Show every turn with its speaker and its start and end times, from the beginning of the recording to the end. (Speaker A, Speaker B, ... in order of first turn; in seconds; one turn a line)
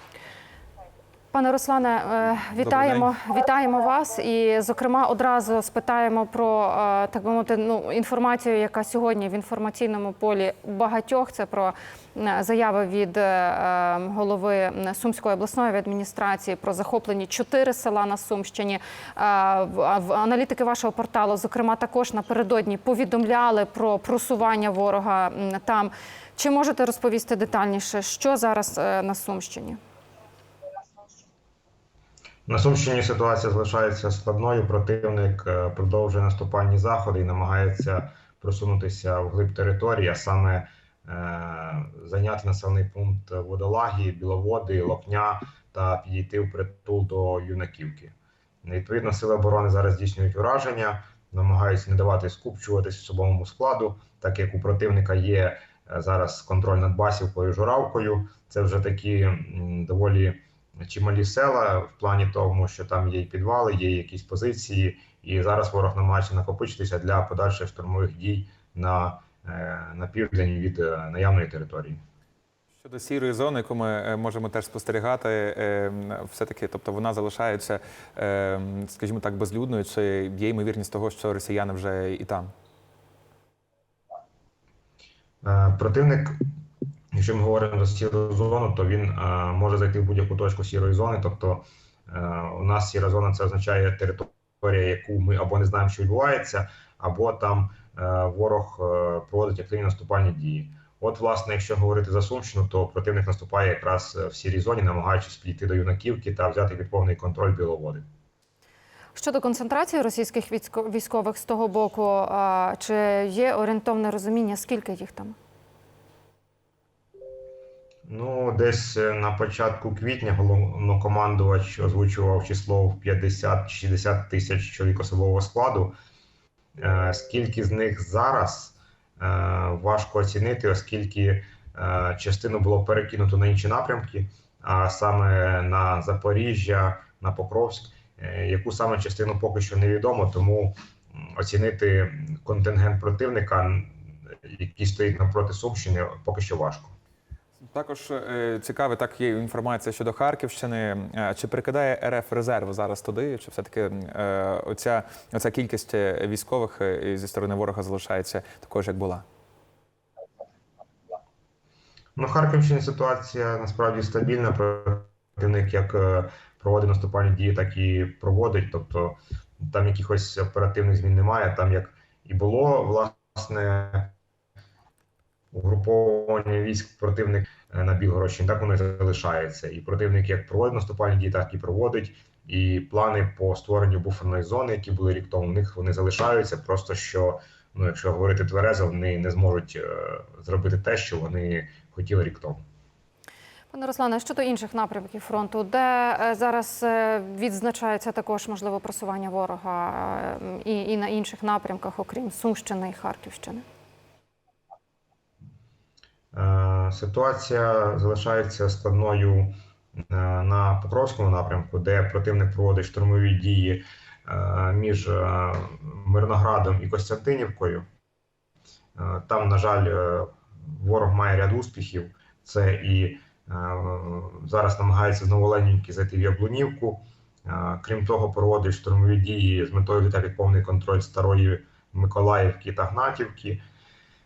Speaker A: 1.3-29.8
Speaker B: 2.6-3.1
Speaker C: 32.5-72.0
Speaker B: 72.8-82.5
Speaker C: 85.4-86.4
Speaker C: 87.1-108.0
Speaker A: 109.2-115.4
Speaker C: 118.1-126.0
Speaker C: 126.8-146.9
Speaker B: 147.7-159.2
Speaker C: 162.2-174.1
Speaker C: 175.5-192.6
Speaker A: 193.7-203.7
Speaker C: 206.3-217.9
Speaker C: 219.0-233.6